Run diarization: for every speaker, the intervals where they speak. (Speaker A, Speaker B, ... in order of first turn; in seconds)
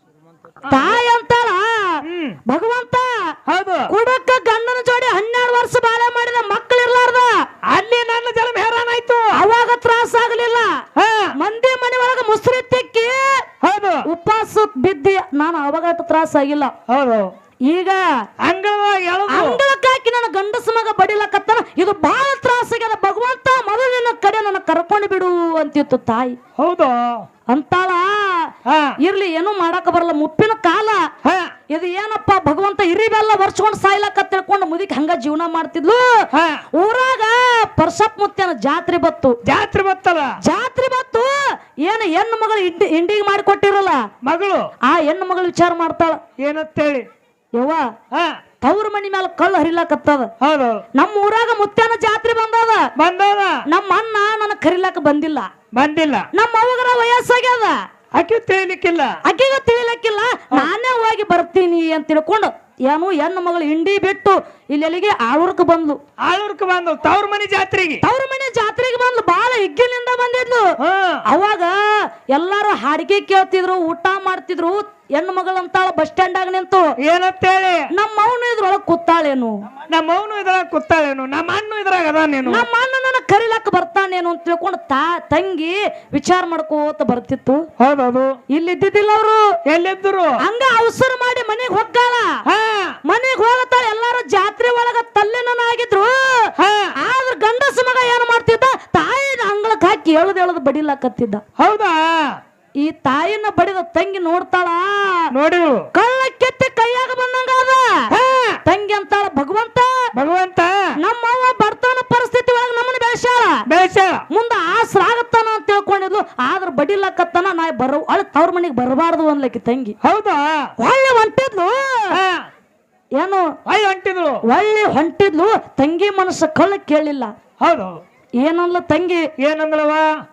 Speaker A: 0.7-1.0, 2.0-2.4, 3.5-3.9, 7.7-9.3, 11.0-11.3, 13.6-14.1, 16.9-17.3, 18.4-19.6, 26.6-27.2, 28.7-29.0, 31.2-31.5, 36.3-36.6, 39.5-40.4, 44.2-44.7, 46.4-47.1, 48.1-48.4, 50.4-50.8, 53.0-53.6, 55.7-56.3, 58.1-59.2, 66.3-68.0, 70.8-71.2, 77.0-77.8, 79.9-82.7, 87.8-88.4, 89.7-90.4, 92.5-93.0, 96.6-96.9, 101.6-102.4, 105.3-105.9, 108.1-108.6, 110.2-110.9, 113.7-114.2, 120.0-120.7, 122.1-122.5, 123.7-124.4, 127.6-128.0, 129.4-130.1
Speaker B: 0.7-3.4, 3.9-7.4, 9.3-10.8, 11.4-13.4, 14.1-16.7, 17.7-18.2, 19.3-26.4, 27.5-31.1, 31.7-36.2, 36.8-39.4, 40.4-44.0, 44.9-46.2, 47.6-47.9, 48.6-50.3, 51.0-52.9, 53.7-55.5, 56.3-57.8, 59.2-66.0, 68.0-70.7, 71.3-76.9, 77.9-79.6, 82.5-87.7, 88.5-89.5, 90.4-92.4, 93.1-101.4, 102.8-105.3, 105.9-108.1, 108.7-110.1, 111.0-113.6, 114.3-120.0, 120.8-122.2, 123.2-123.5, 124.4-127.3, 128.4-129.3